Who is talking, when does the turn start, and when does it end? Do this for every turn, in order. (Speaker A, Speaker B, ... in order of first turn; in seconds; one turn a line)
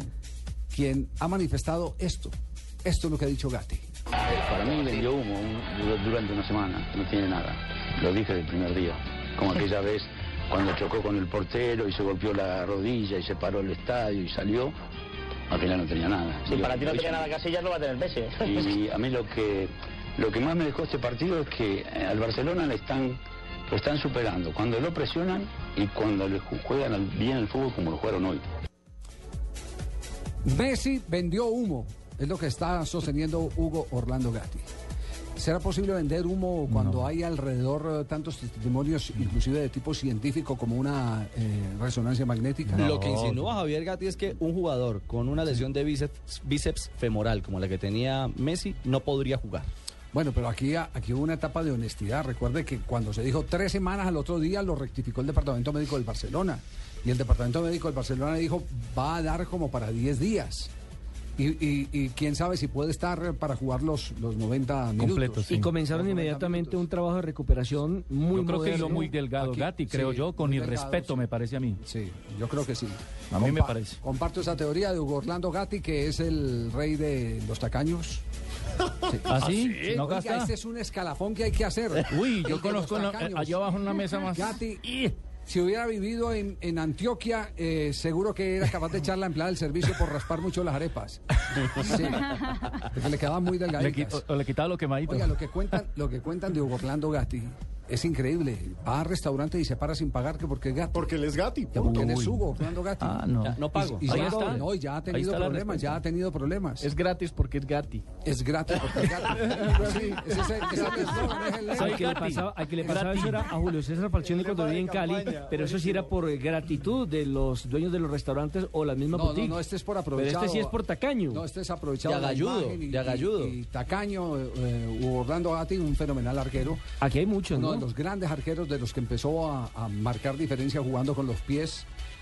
Speaker A: 0.7-3.9
Speaker B: 4.3-14.7
Speaker B: 15.5-17.4
Speaker C: 16.4-18.8
Speaker B: 18.4-28.4
Speaker A: 30.4-34.6
Speaker A: 35.4-42.9
Speaker D: 36.7-37.1
Speaker D: 42.7-43.5
Speaker E: 42.8-49.7
Speaker A: 50.1-60.7
Speaker A: 61.4-66.8
Speaker D: 65.0-65.7
Speaker F: 65.5-69.7
Speaker D: 68.3-71.8
Speaker A: 68.7-71.2
Speaker A: 71.8-78.2
Speaker D: 73.3-74.0
Speaker A: 79.0-83.7
Speaker D: 79.2-80.5
Speaker D: 82.1-85.1
Speaker A: 84.3-94.2
Speaker D: 93.8-95.3
Speaker A: 95.1-101.2
Speaker G: 100.9-102.1
Speaker A: 101.7-106.9
Speaker D: 101.8-102.4
Speaker D: 103.0-106.0
Speaker E: 103.4-104.4
Speaker F: 106.8-108.0
Speaker A: 108.2-112.1
Speaker G: 109.4-110.8
Speaker F: 111.7-119.6
Speaker D: 111.7-113.5
Speaker G: 114.1-116.1
Speaker A: 119.1-120.8
Speaker F: 120.1-121.4
Speaker A: 121.3-126.8
Speaker E: 122.0-123.5
Speaker F: 127.0-127.8
Speaker A: 127.5-131.9